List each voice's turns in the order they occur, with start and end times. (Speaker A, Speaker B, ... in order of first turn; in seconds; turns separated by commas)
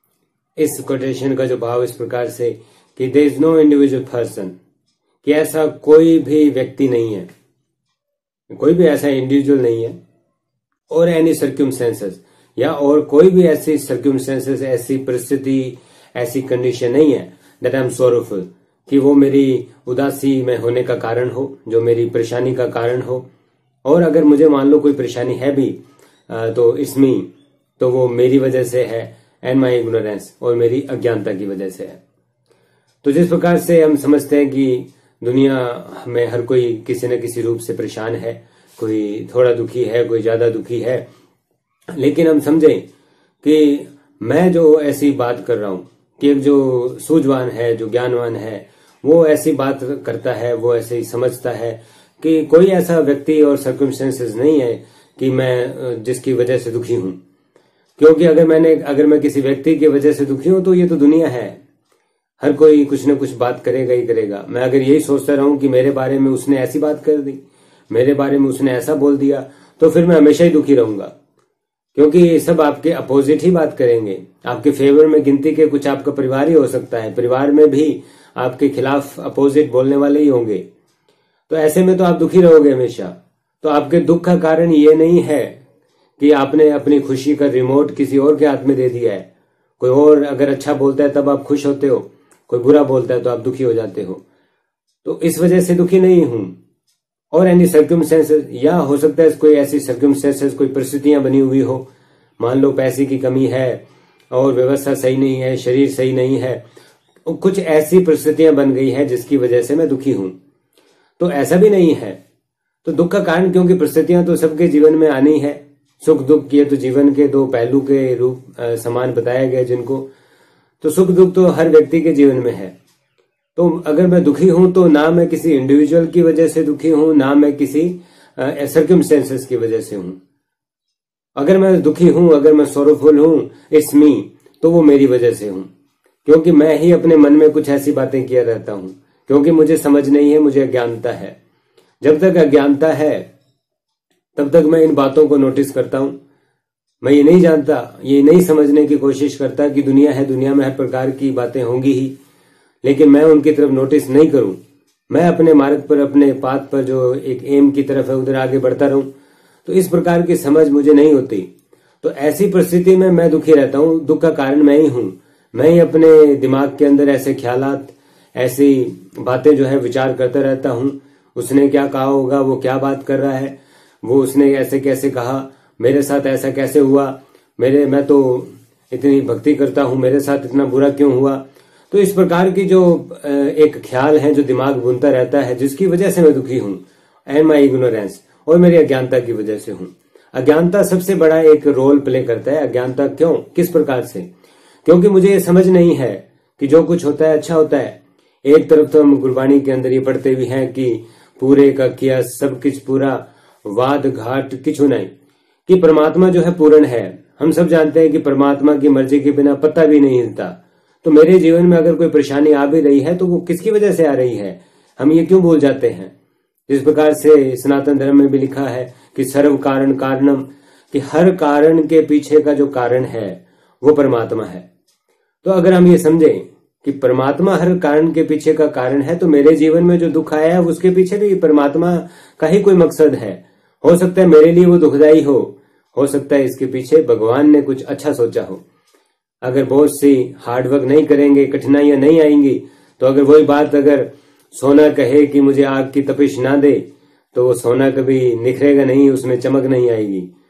Speaker A: 0.6-4.5, Speaker A: 5.2-7.3, Speaker A: 8.5-10.0, Speaker A: 10.9-23.2, Speaker A: 23.8-27.3, Speaker A: 27.8-32.0, Speaker A: 33.0-41.1, Speaker A: 41.9-42.8, Speaker A: 43.4-57.2, Speaker A: 58.0-61.6, Speaker A: 62.4-71.1, Speaker A: 72.0-80.6, Speaker A: 81.5-85.6, Speaker A: 86.2-89.3, Speaker A: 89.8-94.2, Speaker A: 95.0-96.5, Speaker A: 97.3-101.9, Speaker A: 102.4-106.6, Speaker A: 107.2-110.3, Speaker A: 111.2-112.2, Speaker A: 112.8-120.1, Speaker A: 120.8-122.7, Speaker A: 123.6-130.2, Speaker A: 131.3-135.7, Speaker A: 136.2-141.3, Speaker A: 142.0-143.3, Speaker A: 144.3-146.2, Speaker A: 147.0-152.2, Speaker A: 152.8-154.6, Speaker A: 155.1-159.1, Speaker A: 159.7-161.5, Speaker A: 162.0-194.3, Speaker A: 194.8-205.1, Speaker A: 205.7-216.1, Speaker A: 216.7-224.7, Speaker A: 225.4-238.6, Speaker A: 239.4-250.3